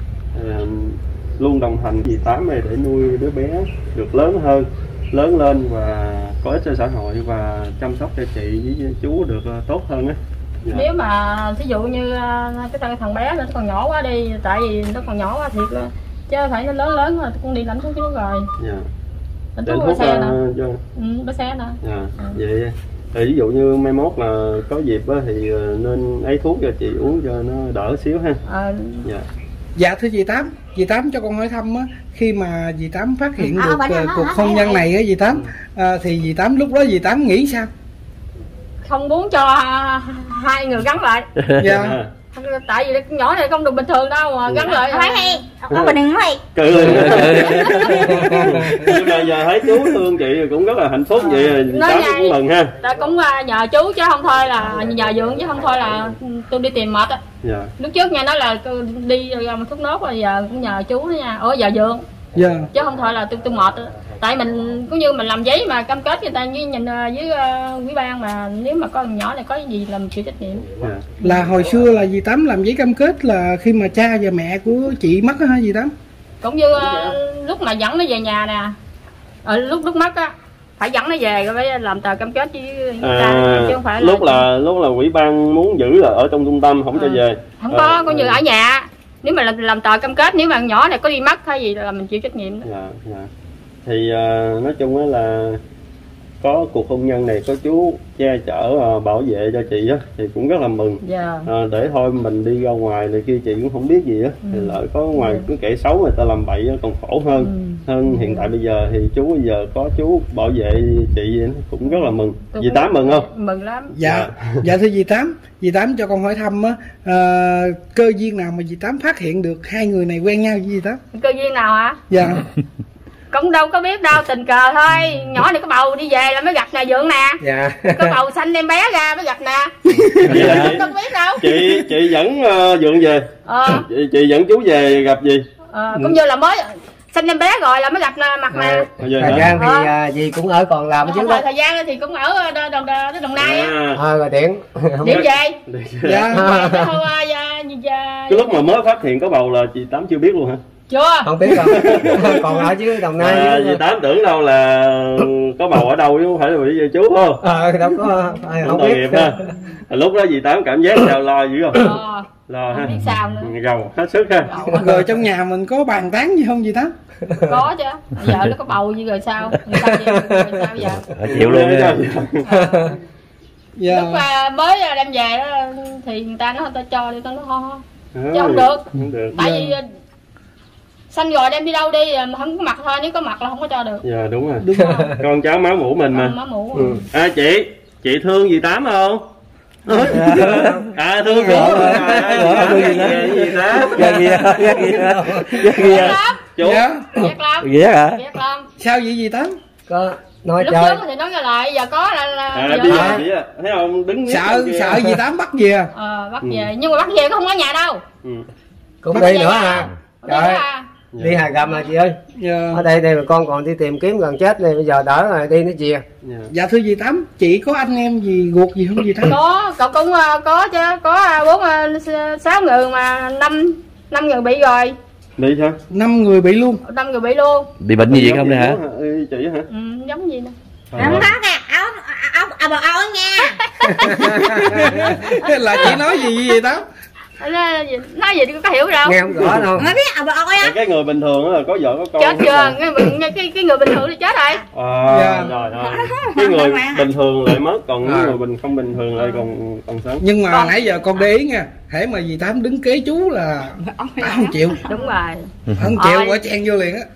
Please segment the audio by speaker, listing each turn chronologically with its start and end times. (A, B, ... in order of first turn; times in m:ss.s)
0:00.3-0:10.8 A
0:10.7-0:18.4 B
0:18.6-0:18.8 A
0:19.6-0:20.3 B
0:19.6-0:20.8 A
0:20.9-0:22.3 B
0:21.8-0:28.4 A
0:28.5-0:29.0 B
0:29.8-0:37.7 C
0:33.6-0:34.5 D
0:38.8-0:41.3 B
0:41.6-0:42.0 C
0:41.6-0:42.1 A
0:42.3-0:45.4 B
0:44.5-0:44.7 A
0:45.1-0:46.3 D
0:45.7-0:52.7 A
0:46.8-0:48.0 E
0:47.3-0:48.1 B
0:48.1-0:48.8 F
0:51.1-0:57.2 B
0:57.4-0:57.7 A
0:57.8-1:02.0 B
1:02.3-1:02.7 C
1:02.7-1:10.6 B
1:10.8-1:11.1 A
1:11.2-1:15.9 C
1:16.4-1:18.7 B
1:16.8-1:17.1 A
1:19.4-1:24.4 B
1:23.0-1:28.4 A
1:26.9-1:32.6 B
1:32.6-1:33.3 A
1:33.8-1:35.6 A
1:36.4-1:53.3 A
1:41.0-1:41.5 B
1:44.4-1:45.4 B
1:47.3-1:48.5 B
1:51.8-1:54.0 B
1:53.9-2:01.0 C
1:54.0-1:54.4 A
2:01.1-2:02.0 B
2:02.1-2:02.4 C
2:03.3-2:11.4 B
2:07.4-2:08.2 F
2:09.9-2:10.8 A
2:10.3-2:10.7 E
2:11.4-2:15.4 A
2:13.4-2:13.8 B
2:15.7-2:18.9 B
2:18.5-2:21.4 F
2:19.0-2:19.5 A
2:19.2-2:19.5 C
2:19.5-2:19.9 B
2:21.0-2:23.7 B
2:23.4-2:24.0 A
2:23.9-2:25.2 F
2:25.0-2:25.6 B
2:25.1-2:26.3 A
2:26.0-2:26.4 C
2:26.3-2:28.6 B
2:26.3-2:27.0 F
2:28.3-2:30.6 A
2:30.9-2:31.3 B
2:31.2-2:33.8 F
2:31.6-2:37.4 A
2:37.4-2:39.4 F
2:38.6-2:39.4 A
2:39.9-2:41.9 A
2:41.7-2:43.5 B
2:42.5-2:44.5 A
2:44.4-2:45.0 B
2:44.7-2:46.9 C
2:47.3-2:51.1 B
2:51.2-2:52.0 E
2:51.3-2:52.4 A
2:52.5-2:52.9 B
2:52.6-2:52.9 F
2:53.8-2:54.2 C
2:53.9-2:58.8 B
2:58.1-2:59.3 A
2:59.3-2:59.7 C
2:59.3-2:59.8 B
3:01.1-3:04.0 B
3:04.0-3:04.7 A
3:04.6-3:05.1 C
3:04.8-3:05.1 B
3:05.2-3:06.3 A
3:06.1-3:07.0 B
3:07.1-3:09.2 A
3:09.8-3:14.2 A
3:10.0-3:10.8 E
3:10.3-3:10.7 F
3:11.2-3:12.8 C
3:11.5-3:16.2 E
3:13.9-3:15.6 F
3:15.6-3:16.8 A
3:15.8-3:16.4 B
3:16.6-3:17.0 C
3:17.1-3:18.7 B
3:17.6-3:18.2 E
3:18.8-3:19.5 C
3:19.9-3:21.0 F
3:20.6-3:23.2 B
3:22.5-3:25.1 A
3:22.9-3:23.2 F
3:24.2-3:25.9 C
3:25.9-3:28.0 B
3:29.0-3:30.6 F
3:29.1-3:30.8 B
3:31.1-3:31.4 A
3:31.2-3:32.2 F
3:32.3-3:32.8 C
3:32.7-3:36.0 F
3:36.2-3:36.5 A
3:36.5-3:39.4 C
3:39.2-3:44.9 B
3:45.4-3:45.8 A
3:45.9-3:46.8 C
3:46.8-3:47.7 B
3:47.8-3:48.8 E
3:48.0-3:49.6 A
3:49.7-3:50.5 B
3:50.9-3:51.4 A
3:51.0-3:51.3 E
3:51.0-3:53.5 D
3:53.4-3:56.4 B
3:54.0-3:54.6 F
3:54.1-3:56.8 C
3:57.4-3:59.3 B
3:59.0-4:00.0 F
3:59.3-3:59.7 A
3:59.9-4:00.7 D
4:00.6-4:02.8 A
4:02.2-4:04.6 B
4:04.7-4:10.2 A
4:05.1-4:05.5 C
4:08.0-4:08.4 F
4:10.2-4:14.8 C
4:10.5-4:10.8 B
4:14.9-4:16.4 B
4:15.8-4:17.1 C